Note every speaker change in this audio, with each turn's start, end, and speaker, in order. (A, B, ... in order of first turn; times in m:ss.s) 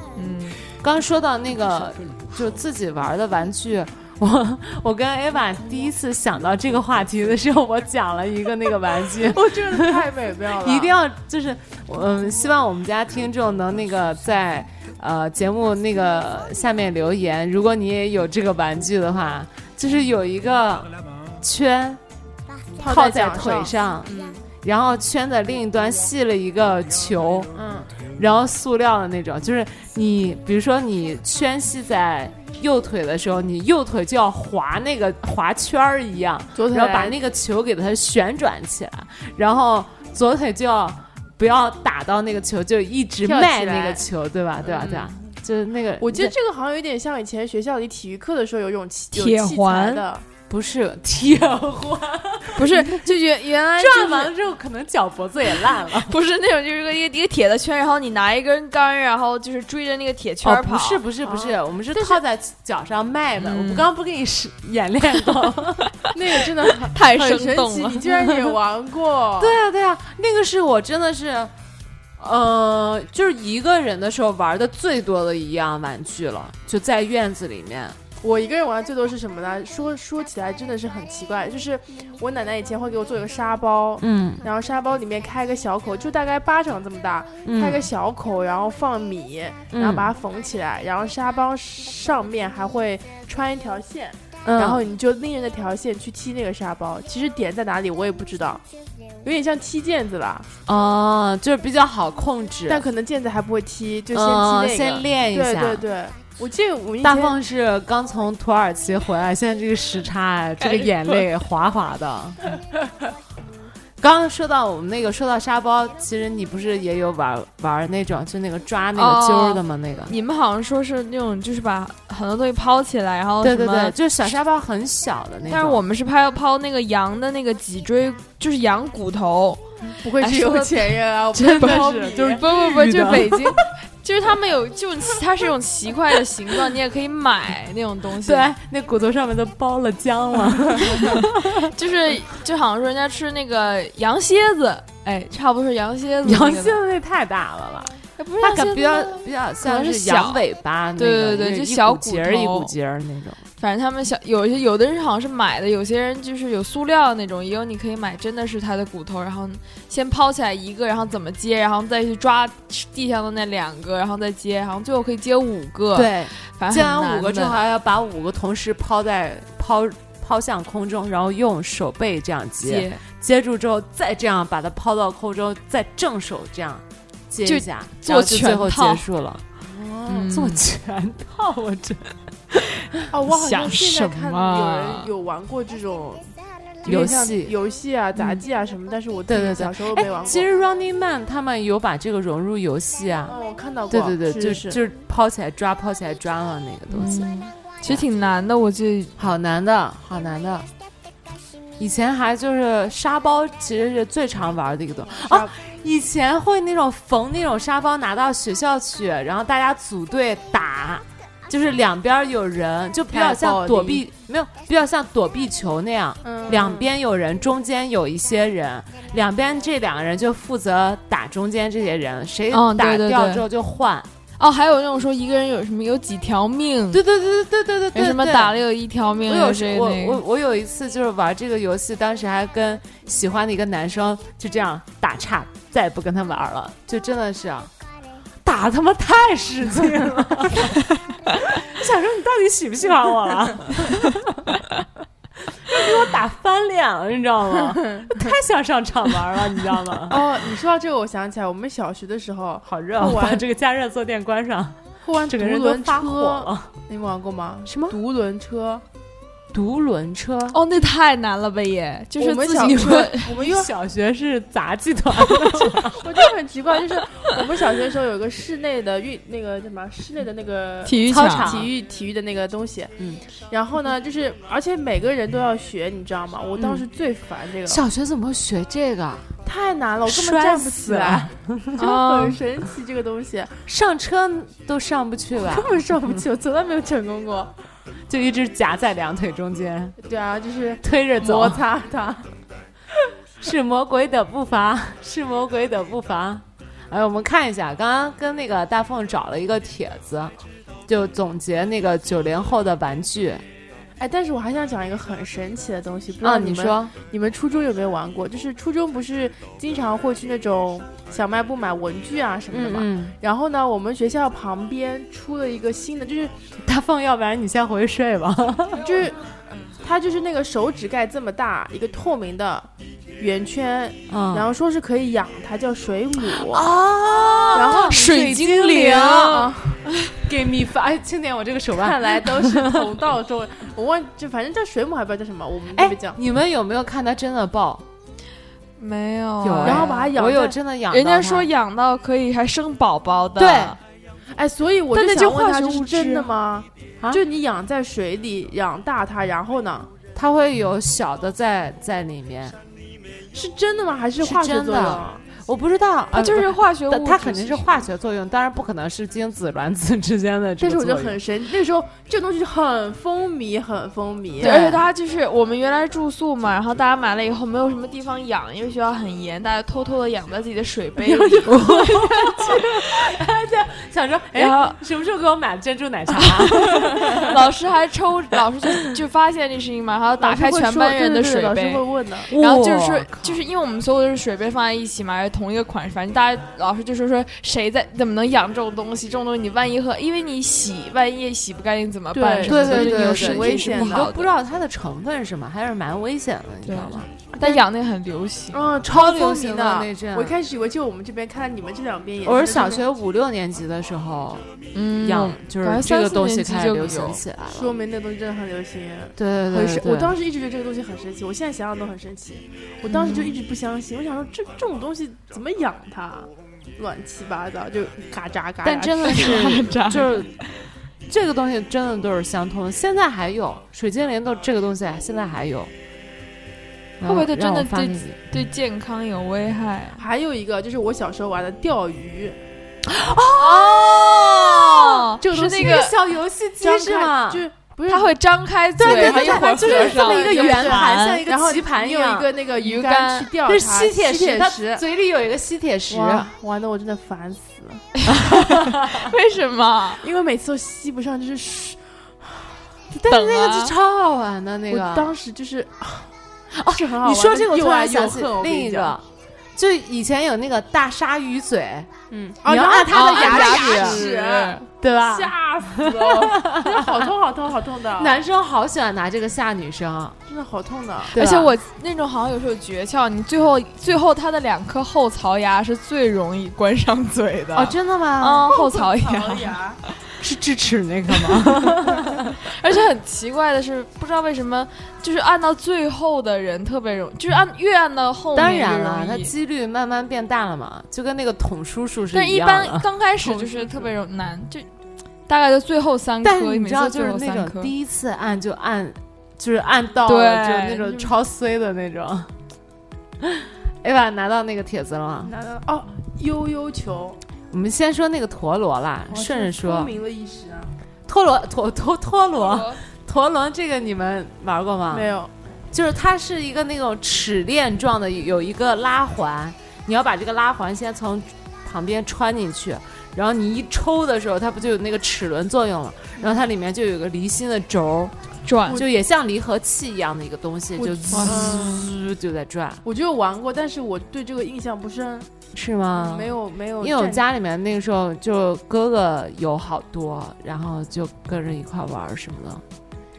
0:00.1-0:00.6 A
0:00.7-0:22.0 B
0:09.2-0:11.0 C
0:22.8-0:24.4 C
0:22.8-0:27.6 B
0:27.5-0:27.9 C
0:28.1-0:46.3 B
0:36.5-0:37.2 C
0:43.2-0:44.0 C
0:44.6-0:45.1 C
0:46.0-0:50.2 C
0:49.1-0:50.0 A
0:50.5-0:52.7 B
0:52.6-0:54.3 A
0:53.8-0:56.2 B
0:55.9-1:01.0 A
1:00.4-1:05.9 B
1:01.2-1:02.2 C
1:03.4-1:03.9 A
1:06.1-1:09.6 C
1:06.9-1:08.0 A
1:09.4-1:11.5 B
1:12.2-1:18.0 B
1:18.2-1:38.6 C
1:24.0-1:24.4 B
1:27.4-1:27.8 B
1:29.7-1:30.1 B
1:34.4-1:34.8 B
1:39.2-1:40.5 C
1:40.6-1:42.8 B
1:42.7-1:47.4 C
1:44.1-1:45.8 B
1:47.0-1:52.4 B
1:50.6-1:51.2 A
1:54.0-2:00.1 B
1:59.0-2:04.0 A
2:03.4-2:05.8 B
2:05.5-2:09.6 A
2:09.9-2:12.4 C
2:10.2-2:11.0 A
2:11.3-2:13.5 B
2:11.6-2:18.5 A
2:18.2-2:21.7 B
2:20.9-2:26.8 A
2:26.2-2:33.4 B
2:28.2-2:30.4 A
2:31.0-2:32.7 A
2:33.6-2:47.6 A
2:45.9-2:59.4 B
2:52.6-2:53.0 A
2:57.4-2:59.0 A
2:59.6-3:00.3 C
3:00.1-3:00.6 A
3:00.2-3:02.1 B
3:03.1-3:06.3 C
3:03.3-3:05.1 A
3:06.8-3:10.5 C
3:06.8-3:07.5 B
3:09.3-3:13.4 B
3:13.3-3:14.8 C
3:13.9-3:17.3 B
3:16.9-3:19.1 A
3:19.2-3:20.7 B
3:21.8-3:44.1 B
3:25.1-3:25.5 C
3:33.1-3:34.0 C
3:36.2-3:36.9 C
3:42.5-3:43.4 A
3:44.4-3:47.0 A
3:46.9-3:48.6 B
3:47.9-3:50.2 A
3:49.2-3:57.7 B
3:58.4-4:00.8 B
4:01.3-4:04.6 B
4:05.6-4:10.2 B
4:08.0-4:08.2 C
4:10.1-4:13.4 C
4:12.7-4:16.7 B
4:15.0-4:18.8 C
4:17.6-4:18.0 B
4:19.5-4:20.6 B
4:20.5-4:23.3 A
4:22.2-4:23.7 C
4:22.6-4:26.0 B
4:25.8-4:32.9 C
4:30.8-4:31.5 A
4:31.0-4:31.7 B
4:33.5-4:37.8 C
4:36.6-4:36.8 B
4:37.7-4:39.3 B
4:39.4-4:43.6 C
4:40.0-4:41.8 B
4:41.8-4:42.4 A
4:43.7-4:46.2 B
4:45.4-4:47.5 C
4:48.1-4:50.0 B
4:50.0-4:52.3 C
4:50.8-4:51.6 B
4:53.4-5:00.3 B
5:00.9-5:03.4 B
5:04.0-5:16.3 C
5:06.2-5:06.9 B
5:12.5-5:13.1 B
5:16.6-5:18.9 B
5:18.8-5:19.2 C
5:19.8-5:26.7 C
5:24.1-5:24.5 B
5:26.2-5:29.5 B
5:27.4-5:30.1 A
5:27.5-5:28.0 C
5:29.3-5:29.8 C
5:30.2-5:32.9 B
5:31.7-5:36.2 C
5:35.7-5:37.8 B
5:38.8-5:40.1 A
5:39.4-5:41.5 B
5:39.6-5:40.6 C
5:40.9-5:43.8 A
5:43.4-5:43.8 B
5:44.3-5:49.9 C
5:44.9-5:46.3 A
5:50.1-5:52.6 B
5:53.3-5:55.2 C
5:54.2-6:01.2 B
5:56.1-5:57.7 A
6:00.6-6:04.7 C
6:04.4-6:04.8 B
6:04.4-6:12.7 A
6:11.0-6:12.6 C
6:11.4-6:17.4 B
6:14.3-6:14.8 A
6:16.1-6:34.3 A
6:20.2-6:22.3 C
6:22.3-6:23.4 B
6:32.1-6:34.1 C
6:32.4-6:37.1 B
6:36.6-6:38.6 A
6:37.4-6:37.6 C
6:38.5-6:42.8 C
6:38.8-6:40.4 B
6:42.2-6:44.4 B
6:44.7-6:47.2 A
6:45.0-6:47.7 B
6:47.5-6:59.6 C
6:49.2-6:50.2 B
6:52.9-6:53.4 A
6:58.6-7:00.4 B
6:59.0-7:00.4 A
7:01.1-7:05.7 B
7:07.0-7:08.2 B
7:07.0-7:10.0 A
7:10.0-7:12.4 C
7:12.9-7:17.4 B
7:13.4-7:16.0 A
7:15.4-7:15.8 C
7:16.6-7:18.2 C
7:17.9-7:21.2 A
7:18.8-7:22.3 B
7:18.8-7:24.8 C
7:22.6-7:23.3 A
7:23.4-7:26.3 B
7:25.9-7:27.9 C
7:28.0-7:30.0 A
7:28.1-7:29.1 B
7:30.0-7:32.6 C
7:32.9-7:35.1 B
7:33.1-7:33.7 A
7:34.7-7:36.1 C
7:36.5-7:41.9 B
7:36.7-7:38.9 C
7:42.1-7:48.2 C
7:42.4-7:44.0 B
7:42.9-7:44.6 A
7:44.8-7:47.0 B
7:48.0-7:50.2 B
7:50.3-7:51.2 C
7:51.1-7:51.5 B
7:51.1-7:59.6 A
7:57.5-7:58.5 B
7:58.5-7:59.8 C
8:00.2-8:02.4 B
8:01.1-8:01.6 A
8:02.4-8:09.3 A
8:08.3-8:12.9 B
8:12.1-8:14.6 A
8:13.2-8:13.9 C
8:15.3-8:17.7 A
8:16.2-8:22.3 B
8:20.0-8:21.0 A
8:23.2-8:25.3 B
8:25.2-8:27.2 C
8:27.5-8:29.9 B
8:29.1-8:30.7 C
8:31.1-8:35.1 B
8:32.4-8:32.8 A
8:34.9-8:35.3 C
8:35.7-8:48.1 B
8:48.4-8:48.8 A
8:48.7-8:52.8 B
8:50.8-8:51.7 A
8:51.1-8:51.9 C
8:52.8-8:55.3 C
8:55.5-9:02.6 B
8:55.9-8:57.2 C